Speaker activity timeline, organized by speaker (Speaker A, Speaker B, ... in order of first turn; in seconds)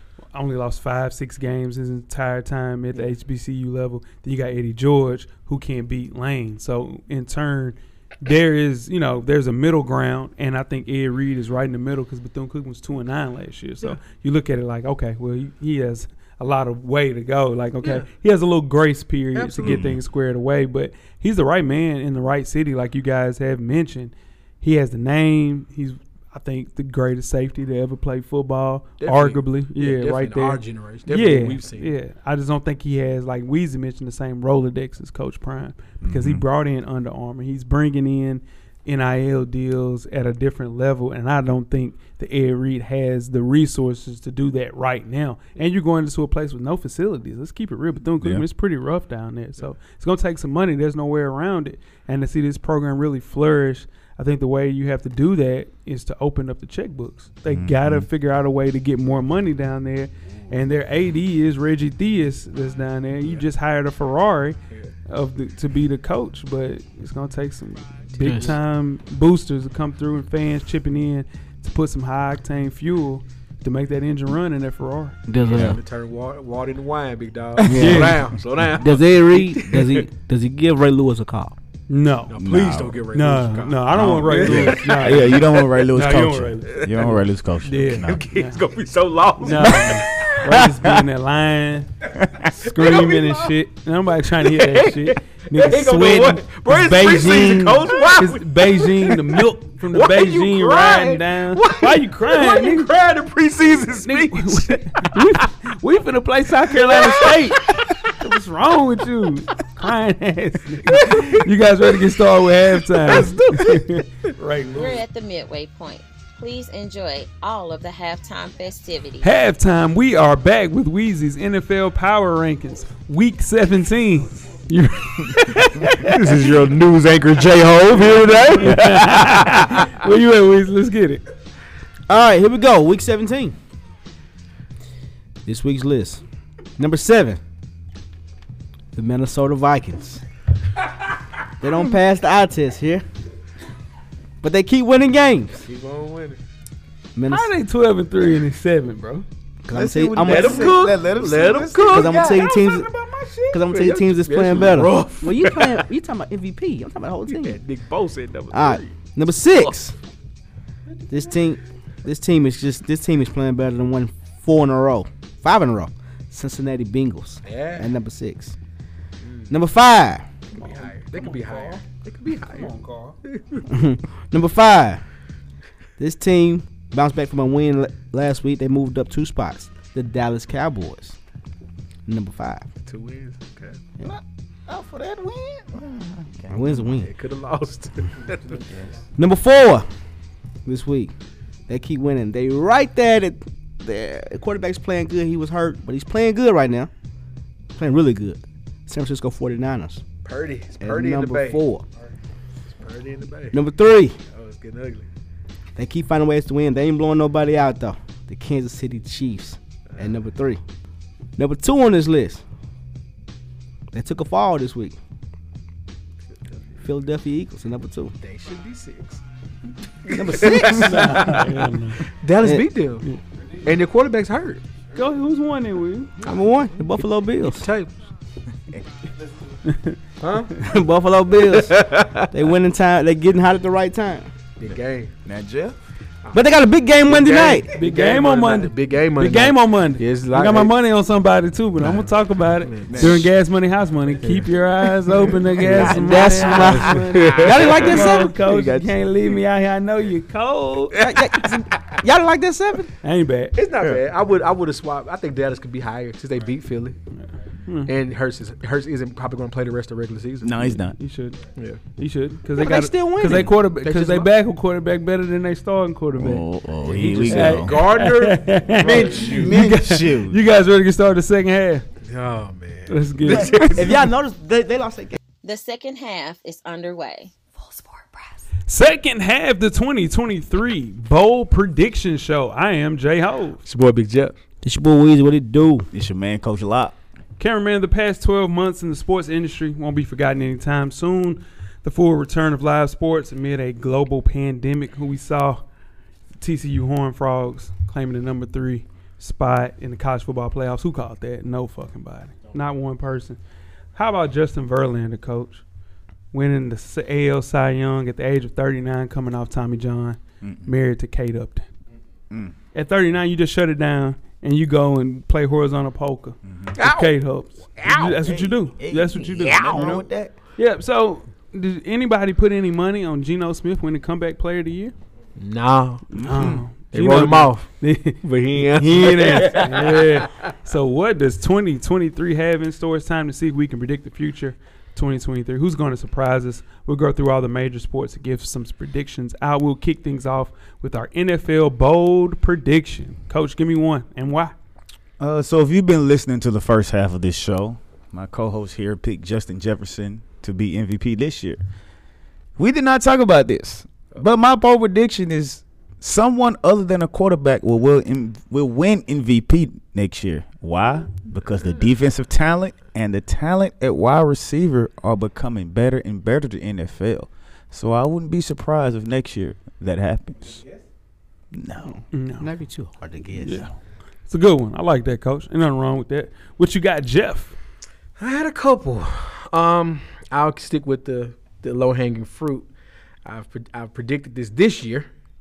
Speaker A: 0.3-75.2, 77.7-78.2, 81.9-82.4, 83.1-88.6, 89.4-91.9, 92.6-102.9, 104.0-115.0, 119.2-126.3, 128.4-131.2, 147.3-149.3, 170.6-171.8, 172.5-173.2, 220.6-222.1, 224.9-226.2, 229.7-230.0, 237.7-251.1, 253.0-253.6, 257.2-257.9, 260.9-261.4, 262.0-266.4, 267.1-271.9, 272.9-273.8, 278.7-283.6, 287.4-295.6, 296.4-303.4, 303.9-305.6, 306.3-311.7, 312.7-319.9, 320.6-324.9, 326.2-344.5, 372.1-372.5, 373.4-373.7, 374.3-377.6
Speaker B: 17.8-18.1, 19.3-19.9, 29.0-31.9, 68.2-68.5, 75.4-80.0, 82.3-85.7, 86.7-87.2, 87.7-90.3, 92.6-93.6, 94.4-105.5, 106.7-108.0, 110.9-111.5, 112.9-113.8, 126.0-129.8, 145.6-146.4, 150.2-155.8, 157.3-159.0, 167.4-167.9, 169.2-169.6, 170.5-173.7, 182.8-183.9, 186.9-188.7, 200.2-201.6, 202.7-203.6, 204.3-205.1, 218.2-219.2, 220.1-221.6, 222.1-223.1, 223.6-224.6, 227.4-227.9, 230.2-230.6, 231.5-232.3, 234.6-235.1, 237.1-240.7, 241.8-243.3, 244.2-244.5, 246.6-247.8, 251.0-251.4, 253.5-257.0, 257.8-260.8, 261.6-261.8, 263.8-264.3, 266.8-269.5, 272.0-274.1, 283.6-284.4, 316.8-317.2, 317.8-318.1, 319.4-320.1, 325.4-330.3, 378.2-382.7, 383.2-385.1
Speaker C: 19.6-20.0, 36.0-36.5, 48.2-48.5, 57.5-58.1, 75.5-75.8, 82.4-83.1, 83.9-88.4, 89.6-91.0, 92.2-92.5, 128.0-129.0, 149.7-152.5, 184.0-186.8, 234.7-235.8, 242.9-243.3, 246.2-246.8, 247.5-247.9, 248.5-248.9, 260.4-261.0, 266.2-268.0, 268.8-270.4, 285.9-287.0, 310.4-310.7, 316.5-316.8, 317.9-320.3, 326.1-326.7, 345.2-351.6, 352.6-370.6, 371.5-372.0
Speaker D: 68.2-68.5, 75.3-75.8, 77.6-81.6, 132.1-133.6, 135.4-136.2, 136.8-137.4, 138.9-140.2, 141.6-143.0, 144.4-145.7, 147.2-147.5, 149.6-150.9, 151.9-152.9, 153.5-157.6, 158.5-159.9, 161.1-168.6, 169.5-170.3, 173.7-175.0, 176.0-181.2, 182.1-182.7, 186.5-187.1, 189.2-189.9, 190.7-191.1, 191.7-196.9, 197.7-200.0, 200.8-201.8, 203.5-204.2, 205.8-210.6, 211.4-212.4, 213.9-215.0, 216.8-218.1, 220.1-221.1, 226.2-227.7, 230.6-234.3, 236.3-237.7, 245.8-248.4, 251.0-252.9, 262.6-263.5, 273.5-275.2, 284.6-285.9, 372.4-373.7
Speaker E: 114.7-119.3, 275.4-278.3